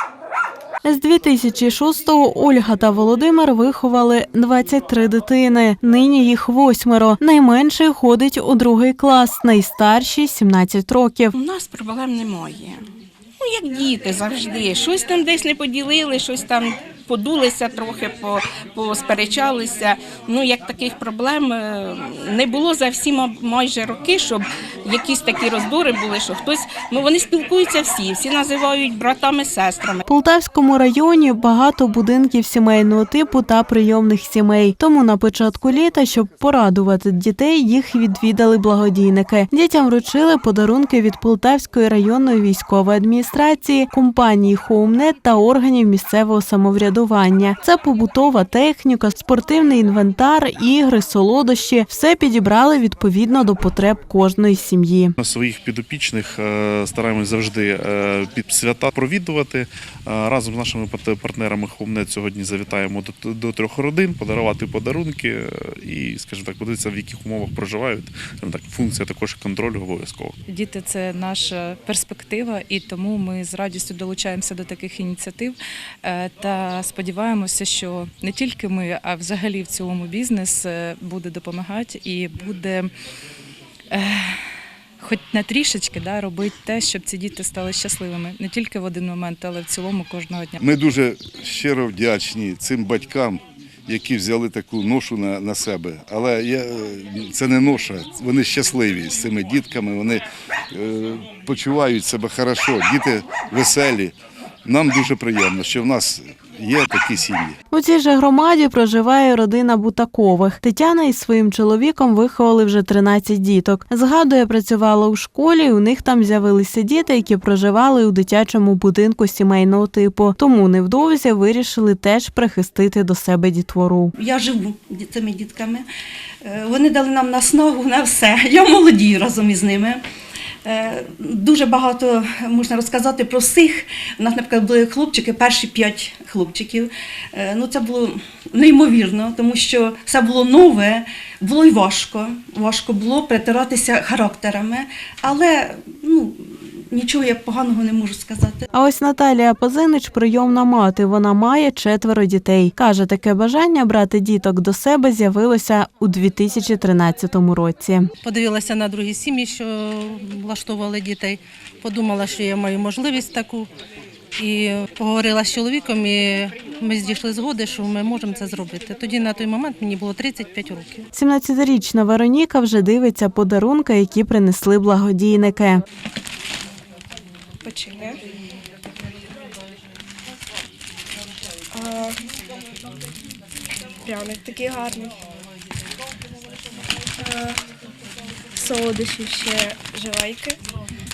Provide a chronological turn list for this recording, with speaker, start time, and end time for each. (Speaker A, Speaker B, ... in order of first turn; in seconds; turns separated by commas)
Speaker A: 0.8-11.3, Speaker B: 11.3-12.8, Speaker B: 13.4-30.0, Speaker A: 30.1-55.1, Speaker C: 55.2-70.4, Speaker D: 70.5-82.9, Speaker D: 83.9-84.4, Speaker D: 85.0-90.7, Speaker E: 90.6-107.5, Speaker A: 107.7-124.1, Speaker F: 124.2-125.9, Speaker F: 126.4-130.0, Speaker F: 130.7-148.7, Speaker A: 148.7-158.1, Speaker G: 158.2-163.7, Speaker G: 164.4-171.0, Speaker A: 171.1-175.8, Speaker H: 177.6-178.2, Speaker H: 181.7-182.2, Speaker H: 184.1-185.2, Speaker H: 187.2-187.6, Speaker H: 188.6-190.6